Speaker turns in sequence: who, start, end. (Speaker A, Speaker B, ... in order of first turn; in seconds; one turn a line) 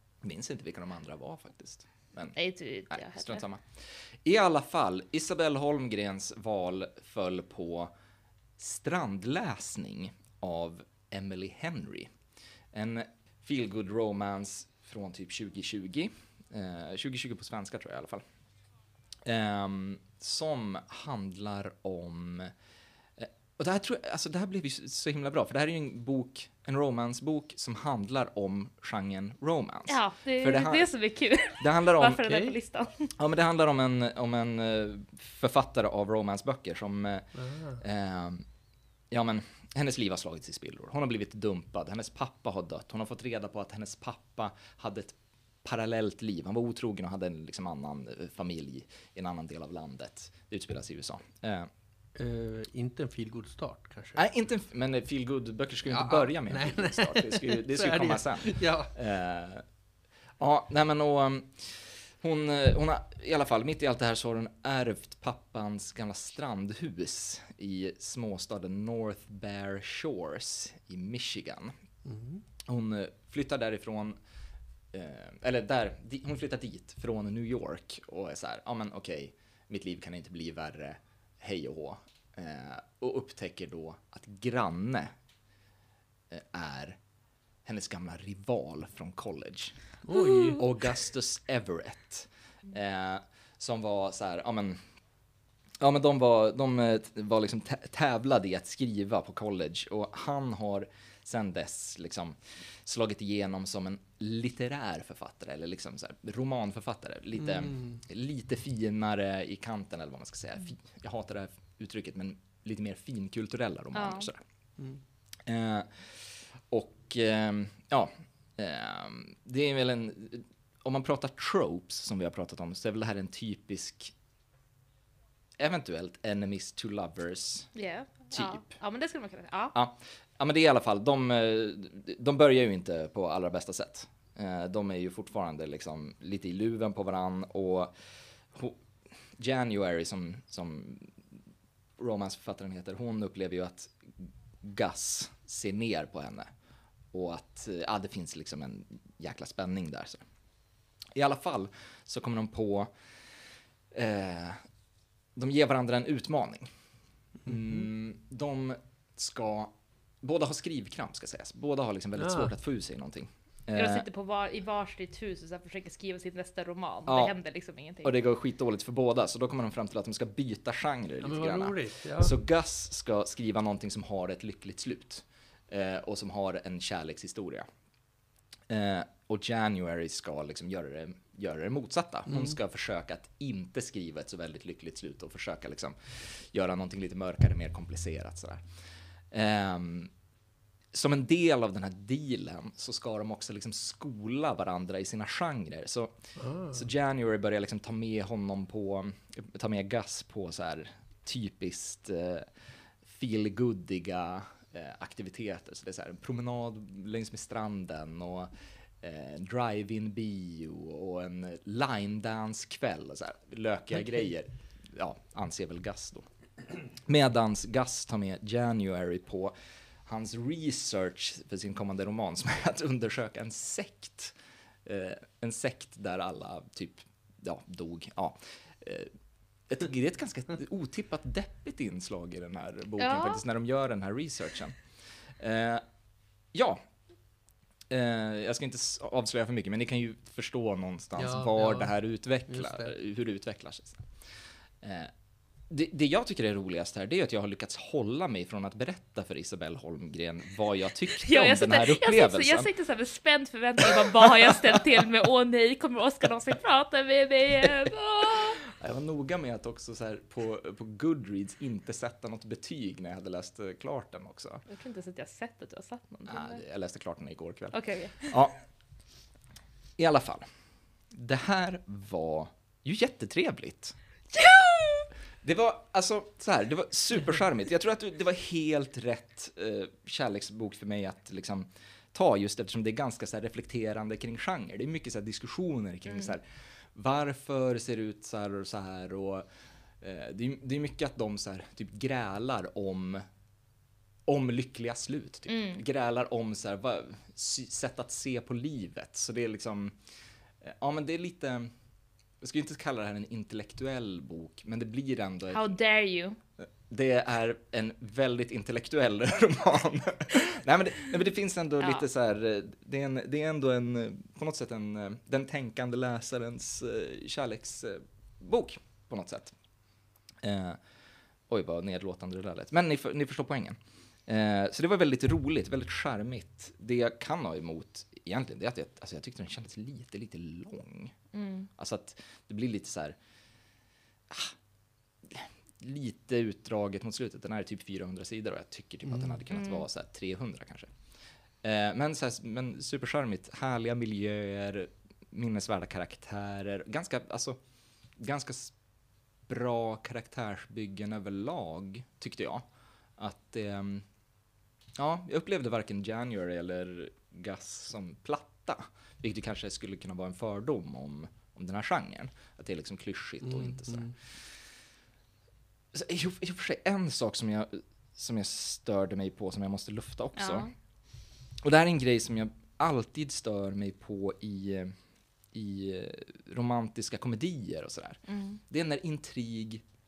Speaker A: 0.2-2.4
Speaker B: 2.3-3.4
Speaker A: 2.9-7.9
Speaker A: 8.6-12.1
Speaker A: 12.7-18.2
Speaker A: 19.2-22.5
Speaker A: 23.2-30.9
Speaker B: 29.9-33.1
Speaker A: 31.6-32.5
Speaker A: 33.1-37.3
Speaker C: 37.4-37.8
Speaker A: 37.8-38.5
Speaker A: 39.1-51.7
Speaker C: 52.1-54.2
Speaker A: 54.2-59.6
Speaker C: 55.9-58.9
Speaker A: 60.4-71.7
Speaker C: 72.0-72.4
Speaker A: 72.6-74.2
Speaker A: 74.9-85.1
Speaker A: 86.3-87.0
Speaker A: 87.6-89.8
Speaker C: 90.0-90.6
Speaker B: 90.1-90.6
Speaker A: 90.5-94.8
Speaker A: 95.8-114.4
Speaker C: 107.4-108.0
Speaker B: 113.9-114.3
Speaker A: 115.5-124.1
Speaker A: 125.6-127.7
Speaker B: 127.7-129.7
Speaker A: 128.3-128.7
Speaker A: 129.7-137.9
Speaker A: 138.5-138.8
Speaker A: 139.3-141.1
Speaker A: 142.0-146.5
Speaker A: 147.1-150.2
Speaker A: 151.1-152.9
Speaker A: 153.9-154.6
Speaker A: 155.3-156.7
Speaker C: 157.4-157.8
Speaker A: 157.4-164.0
Speaker C: 162.2-162.5
Speaker B: 163.7-168.2
Speaker A: 167.1-167.3
Speaker A: 168.0-177.7
Speaker C: 171.2-172.3
Speaker A: 178.7-188.6
Speaker C: 182.3-182.6
Speaker A: 189.3-190.1
Speaker A: 190.9-202.5
Speaker C: 196.4-196.8
Speaker A: 203.0-216.2
Speaker A: 217.0-219.5
Speaker A: 220.1-229.1
Speaker A: 229.7-234.8
Speaker B: 233.0-233.4
Speaker A: 235.4-235.8
Speaker A: 236.5-236.8
Speaker A: 237.9-244.1
Speaker C: 241.2-241.9
Speaker C: 242.5-242.9
Speaker A: 244.8-245.1
Speaker A: 245.7-252.7
Speaker B: 251.2-258.6
Speaker A: 253.9-254.6
Speaker A: 257.6-264.6
Speaker B: 264.7-266.6
Speaker A: 266.3-268.6
Speaker B: 267.7-268.4
Speaker A: 270.0-270.4
Speaker A: 271.1-273.9
Speaker B: 274.3-275.1
Speaker A: 275.4-289.4
Speaker A: 290.0-293.2
Speaker A: 294.2-300.0
Speaker B: 295.5-295.8
Speaker A: 300.6-301.7
Speaker A: 302.4-305.7
Speaker B: 305.5-306.4
Speaker A: 306.6-319.5
Speaker B: 311.8-312.1
Speaker A: 320.4-320.8
Speaker A: 321.5-331.1
Speaker B: 331.3-331.7
Speaker A: 331.8-333.1
Speaker A: 334.3-334.5
Speaker A: 335.2-340.9
Speaker C: 339.1-339.4
Speaker B: 339.5-339.8
Speaker A: 341.6-347.6
Speaker A: 348.2-348.7
Speaker A: 349.5-354.1
Speaker A: 355.0-364.1
Speaker C: 363.4-364.1
Speaker A: 365.9-370.7
Speaker B: 370.4-370.7
Speaker A: 371.6-374.9
Speaker A: 375.5-379.8
Speaker B: 378.3-378.6